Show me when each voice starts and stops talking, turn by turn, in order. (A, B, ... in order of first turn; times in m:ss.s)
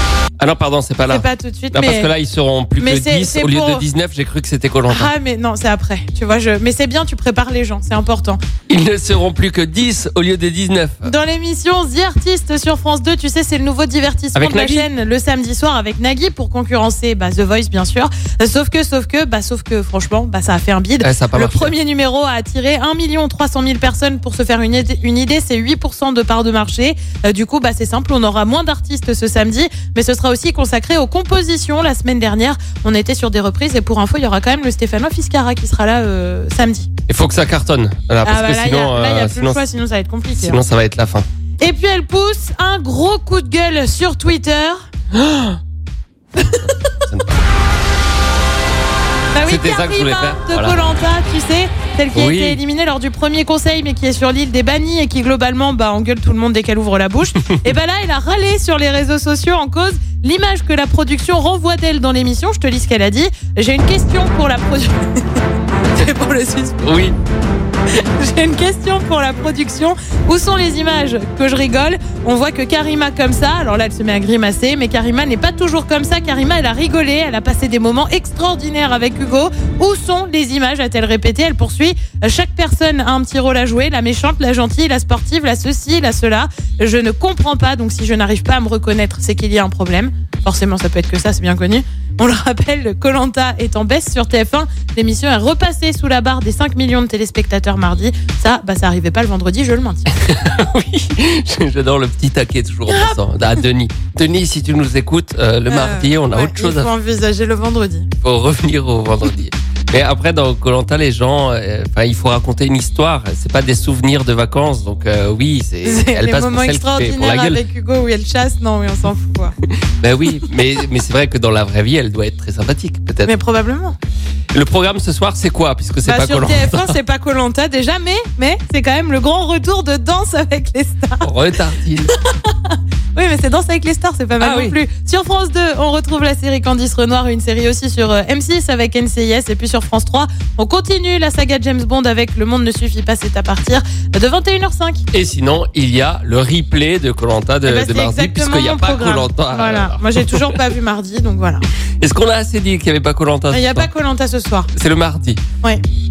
0:00.4-0:05.1 A
0:01.1-0:02.1 B
0:02.8-0:03.8 B
0:04.9-0:08.4 B
0:08.7-0:11.1 A
0:11.0-0:36.9 B
0:14.4-0:14.9 A
0:21.0-0:21.8 A
0:37.1-0:39.6 A
0:38.2-0:40.6 B
0:40.4-0:41.2 A
0:41.6-0:44.8 B
0:45.1-0:45.6 A
0:46.4-0:46.8 B
0:47.0-0:47.4 A
0:49.3-1:06.9 B
0:49.5-0:50.8 A
0:52.2-0:52.6 A
0:57.3-0:57.6 A
1:06.8-1:07.2 A
1:07.9-1:40.0 B
1:40.1-1:46.9 A
1:42.9-1:43.2 B
1:45.7-1:48.1 B
1:48.2-1:57.6 A
1:55.8-1:59.5 B
2:00.0-2:03.3 A
2:03.2-2:04.0 B
2:04.5-2:07.0 A
2:06.0-2:11.3 B
2:11.2-2:12.1 A
2:12.1-2:25.0 B
2:14.4-2:14.8 A
2:25.1-2:30.6 A
2:27.6-2:31.7 B
2:32.0-2:33.9 A
2:33.5-2:34.7 B
2:34.7-2:35.4 A